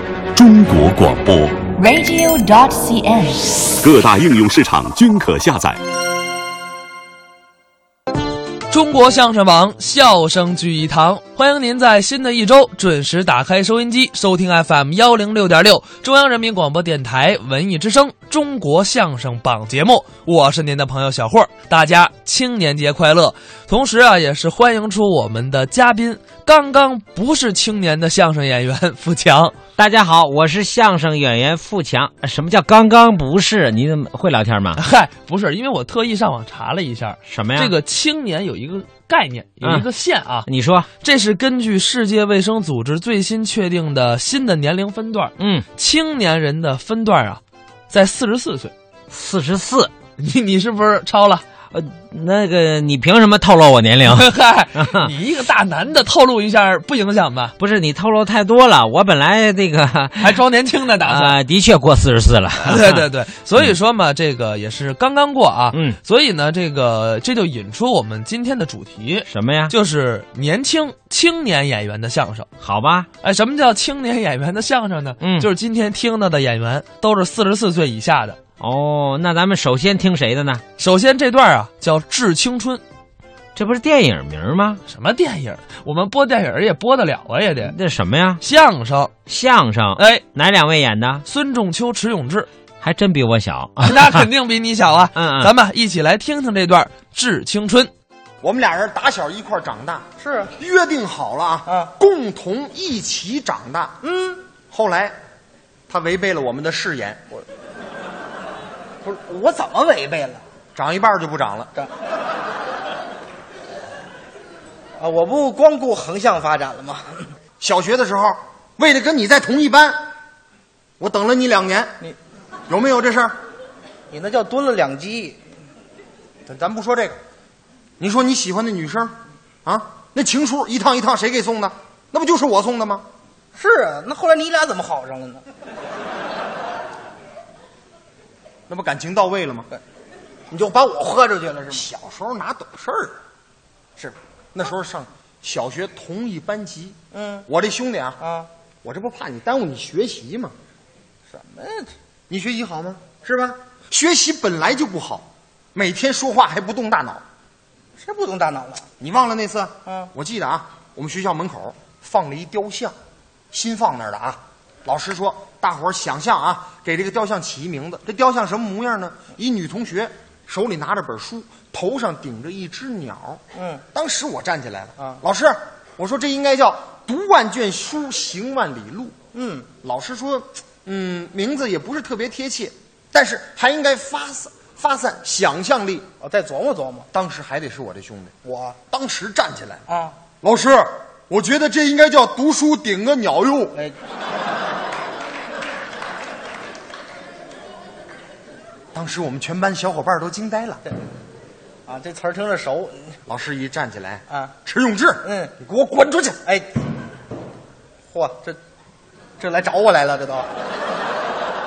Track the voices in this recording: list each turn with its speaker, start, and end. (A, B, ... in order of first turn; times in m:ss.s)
0:00.3-0:01.6 A
0:01.7-0:03.8 B
0:03.8-0:05.8 A
0:08.7-0:29.6 C
0:29.8-0:34.8 D
0:34.8-0:40.4 C
0:37.3-0:37.7 D
0:40.4-0:40.9 D
0:41.0-0:48.7 C
0:45.4-0:45.6 D
0:49.1-0:49.9 D
0:50.2-0:51.4 C
0:51.7-0:55.1 D
0:54.0-0:57.5 C
0:57.6-1:00.4 D
1:00.2-1:01.4 C
1:01.0-1:03.0 D
1:02.6-1:12.5 C
1:09.3-1:09.7 D
1:12.6-1:13.1 D
1:13.2-1:18.4 C
1:15.2-1:15.5 D
1:18.6-1:20.6 D
1:20.8-1:22.8 C
1:23.5-1:24.8 D
1:24.9-1:27.7 C
1:27.6-1:28.4 D
1:28.4-1:29.1 C
1:29.3-1:31.2 D
1:30.0-1:30.2 C
1:31.2-1:32.5 C
1:32.8-1:34.3 D
1:33.8-1:37.9 C
1:35.1-1:35.5 D
1:38.4-1:40.0 E
1:40.2-1:40.5 F
1:40.6-1:44.0 E
1:41.6-1:41.9 F
1:44.0-1:44.4 F
1:44.6-1:45.1 E
1:45.9-1:47.2 E
1:49.0-1:50.4 F
1:50.7-1:51.7 E
1:55.0-1:57.2 F
1:57.6-2:00.0 E
2:01.0-2:02.0 E
2:02.7-2:03.4 E
2:04.1-2:05.4 F
2:06.5-2:07.2 E
2:08.0-2:13.1 E
2:13.5-2:15.4 F
2:18.7-2:19.7 E
2:20.5-2:21.9 F
2:21.7-2:23.2 E
2:24.5-2:28.2 E
2:27.1-2:27.4 F
2:28.2-2:28.5 F
2:28.8-2:30.5 E
2:31.3-2:31.9 F
2:32.3-2:37.2 E
2:38.0-2:38.8 F
2:39.0-2:42.9 E
2:43.5-2:53.4 E
2:53.5-2:53.8 F
2:53.9-2:59.2 E
2:59.3-2:59.7 F
2:59.8-3:06.1 E
3:06.2-3:07.1 F
3:07.1-3:08.3 E
3:08.4-3:08.8 F
3:08.9-3:09.8 E
3:09.9-3:10.2 F
3:10.4-3:13.8 E
3:18.9-3:20.8 E
3:21.9-3:23.2 F
3:23.3-3:26.4 E
3:25.2-3:25.5 F
3:28.1-3:28.6 F
3:29.4-3:30.5 F